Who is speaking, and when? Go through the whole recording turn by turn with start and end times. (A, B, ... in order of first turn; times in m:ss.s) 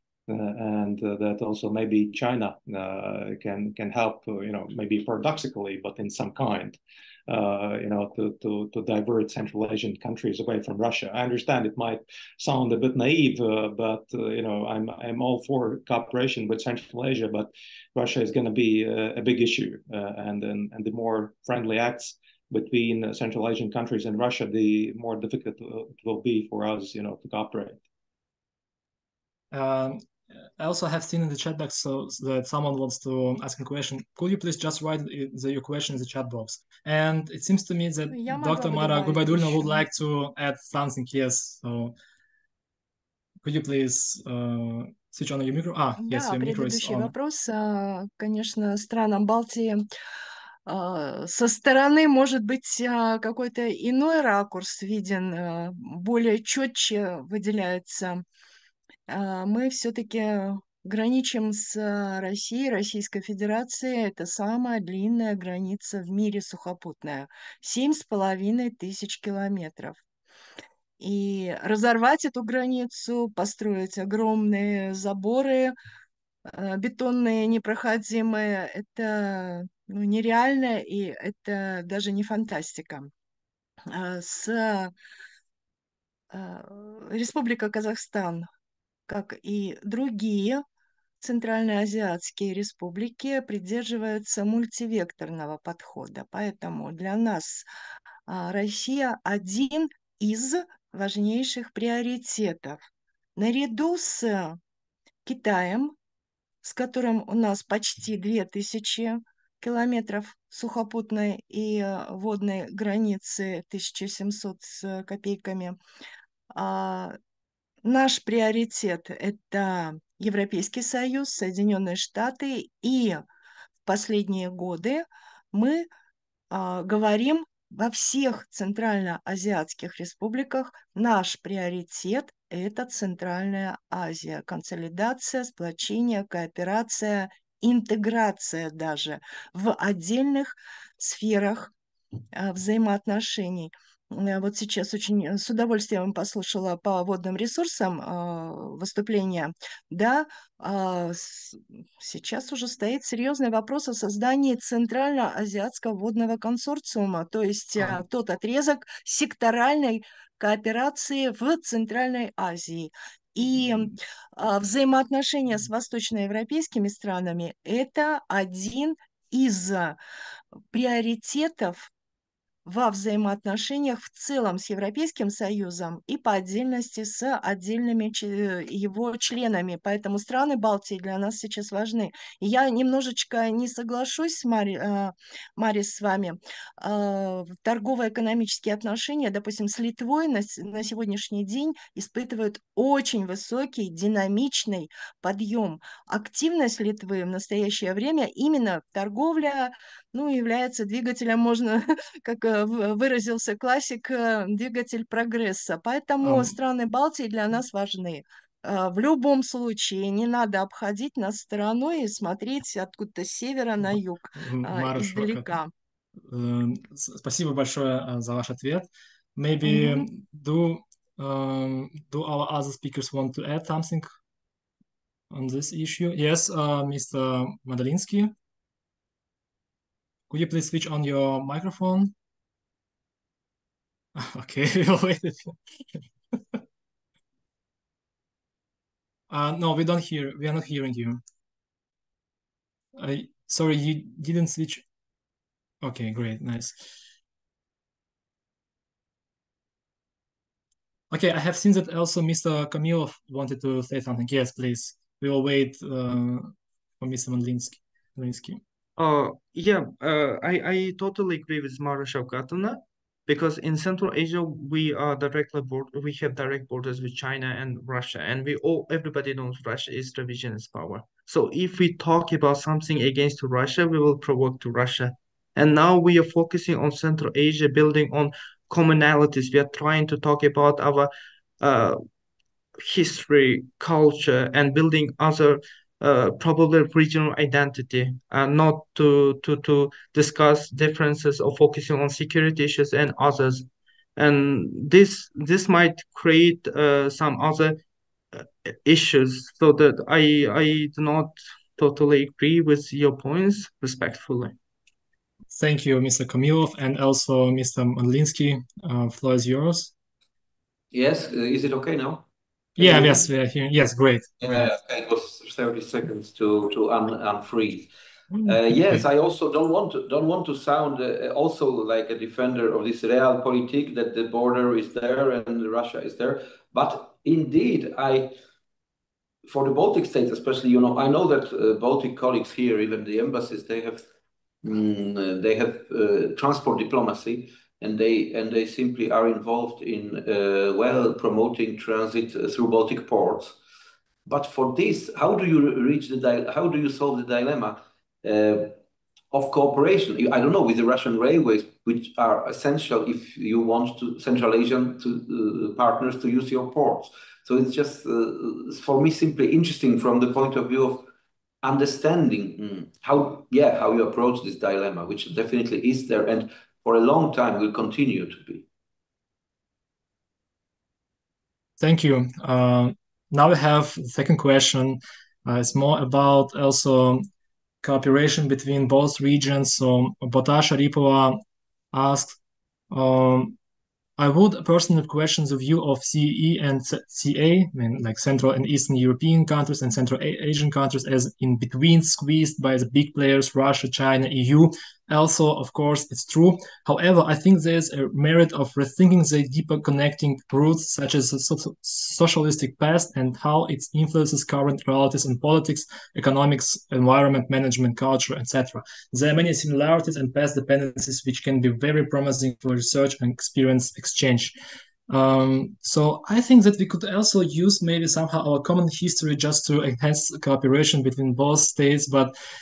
0:00.3-0:27.8 A
0:29.5-0:30.0 B
0:30.6-0:41.9 B
0:38.1-0:39.8 C
0:43.4-0:47.1 B
0:46.0-0:49.8 C
0:50.6-0:58.2 C
0:59.1-1:10.0 C
1:11.0-1:15.8 C
1:16.4-1:23.1 C
1:23.9-1:24.9 C
1:26.3-1:28.5 C
1:29.1-1:30.6 C
1:31.2-1:37.6 C
1:38.3-1:42.8 C
1:43.4-1:44.6 C
1:45.2-1:45.9 C
1:46.6-1:55.8 C
1:56.5-1:57.1 C
1:57.8-2:03.2 C
2:03.8-2:05.9 C
2:06.5-2:21.7 C
2:22.3-2:50.0 C
2:50.7-2:51.9 C
2:52.6-3:35.7 C
3:26.2-3:26.5 B
3:33.8-3:35.6 B
3:36.3-3:44.1 B
3:39.6-3:40.0 C
3:45.3-3:48.3 B
3:50.3-3:52.1 B
3:54.1-3:56.0 B
3:59.3-4:01.2 B
4:03.0-4:04.8 B
4:05.8-4:06.8 B
4:11.1-4:18.6 B
4:19.0-4:42.0 D
4:42.8-4:57.8 D
4:58.3-5:04.6 D
5:05.5-5:09.9 B
5:10.9-5:13.3 E
5:12.8-5:14.7 B
5:14.4-5:17.9 E
5:18.3-5:19.0 B
5:18.4-5:28.3 E
5:29.4-5:34.0 E
5:34.6-5:43.6 E
5:44.2-5:48.8 E
5:49.3-6:01.1 E
6:01.6-6:08.6 E
6:11.8-6:17.3 B
6:17.8-6:21.4 B
6:21.9-6:22.4 B
6:22.9-6:23.6 B
6:24.2-6:54.5 B
6:55.1-7:02.3 B